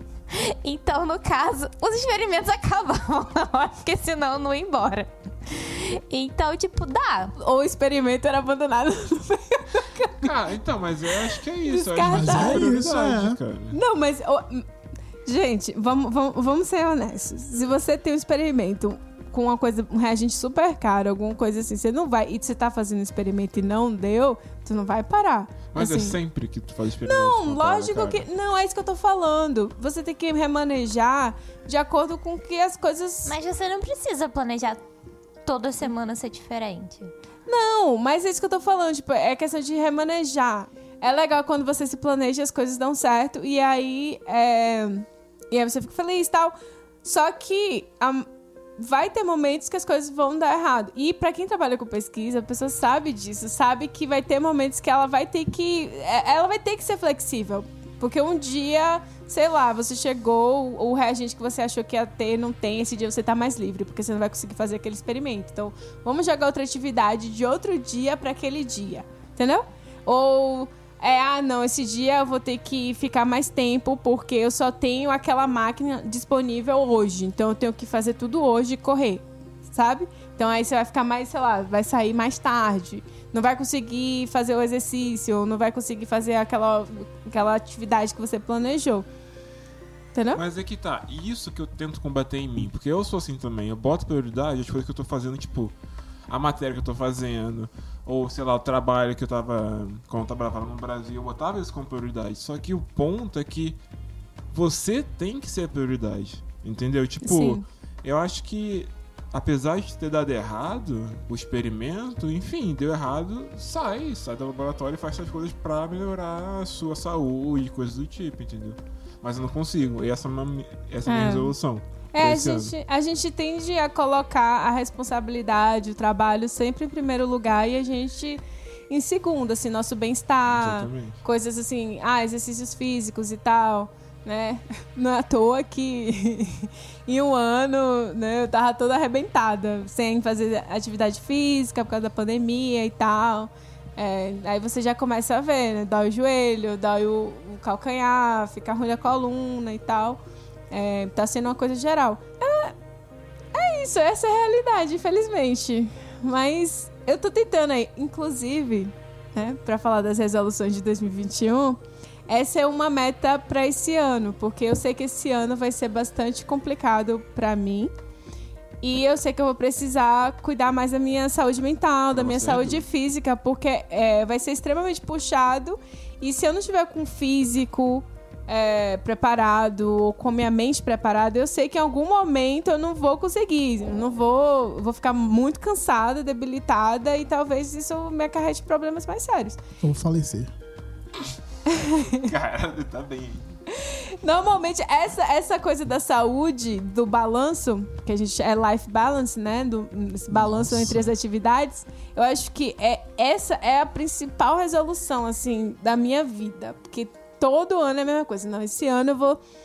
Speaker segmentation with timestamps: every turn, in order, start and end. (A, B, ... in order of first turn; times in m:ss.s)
0:00.3-0:07.3 A
0:07.4-0:10.4 B
0:10.2-0:13.8 C
0:11.2-0:12.8 B
0:12.1-0:13.4 D
0:13.7-0:14.7 B
0:15.2-0:26.2 B
0:25.7-0:28.3 C
0:27.0-0:33.3 B
0:33.2-0:34.8 A
0:35.4-0:37.1 A
0:37.5-1:29.1 B
1:30.1-1:30.4 B
1:30.3-1:35.7 C
1:36.3-1:43.8 C
1:44.5-2:02.7 C
1:47.2-1:47.6 B
2:01.1-2:01.6 B
2:02.1-2:32.8 B
2:10.5-2:11.2 C
2:33.5-2:47.9 B
2:48.8-3:09.6 B
2:52.1-2:52.8 C
3:09.8-3:10.5 D
3:11.7-3:12.3 B
3:12.1-3:13.6 C
3:13.7-3:29.4 B
3:20.3-3:21.1 D